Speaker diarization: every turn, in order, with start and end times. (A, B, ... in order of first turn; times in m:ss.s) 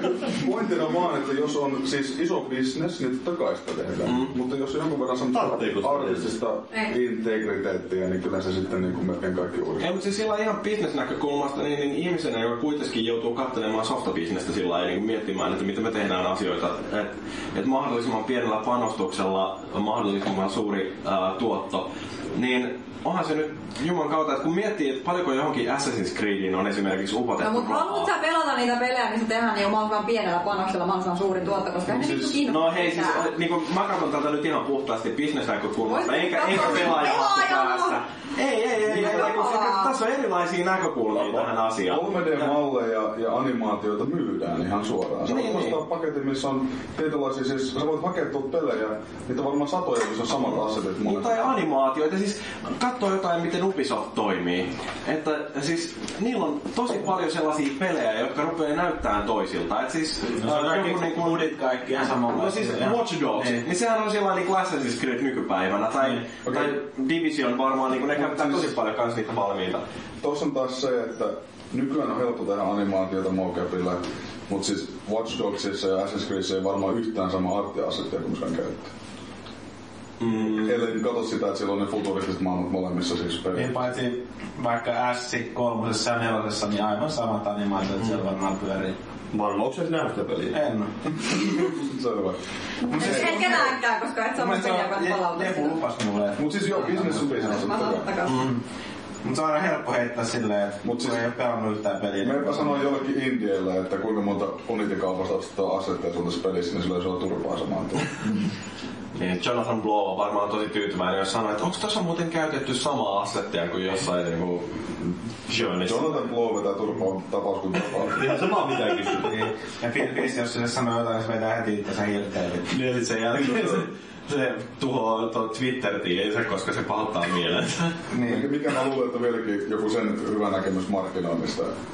0:00.2-0:09.9 A
0:04.0-0:04.3 B
0:05.3-0:06.3 C
0:09.8-0:28.1 B
0:27.4-0:33.3 D
0:31.9-0:42.6 B
0:35.8-0:38.0 D
0:38.8-0:39.9 D
0:41.2-0:51.5 A
0:45.3-0:45.8 B
0:51.0-1:01.5 B
1:00.4-1:03.6 E
1:02.0-1:09.8 B
1:06.5-1:06.8 A
1:08.1-1:08.8 A
1:10.2-1:18.9 A
1:20.2-1:20.8 B
1:20.3-1:23.8 A
1:23.6-1:29.0 E
1:29.3-1:30.6 C
1:30.5-1:30.9 E
1:31.3-1:32.4 A
1:32.8-1:35.8 D
1:32.9-1:33.8 E
1:33.0-1:33.7 A
1:34.4-1:37.6 E
1:36.4-1:38.1 A
1:37.5-1:38.5 D
1:39.2-1:42.8 E
1:40.8-1:41.3 A
1:42.2-1:48.1 A
1:49.2-1:54.9 B
1:55.5-1:56.3 B
1:55.8-1:58.3 A
1:58.2-1:59.5 C
1:59.2-2:02.7 E
2:02.7-2:08.0 B
2:03.4-2:03.9 A
2:08.1-2:08.5 E
2:08.2-2:11.7 A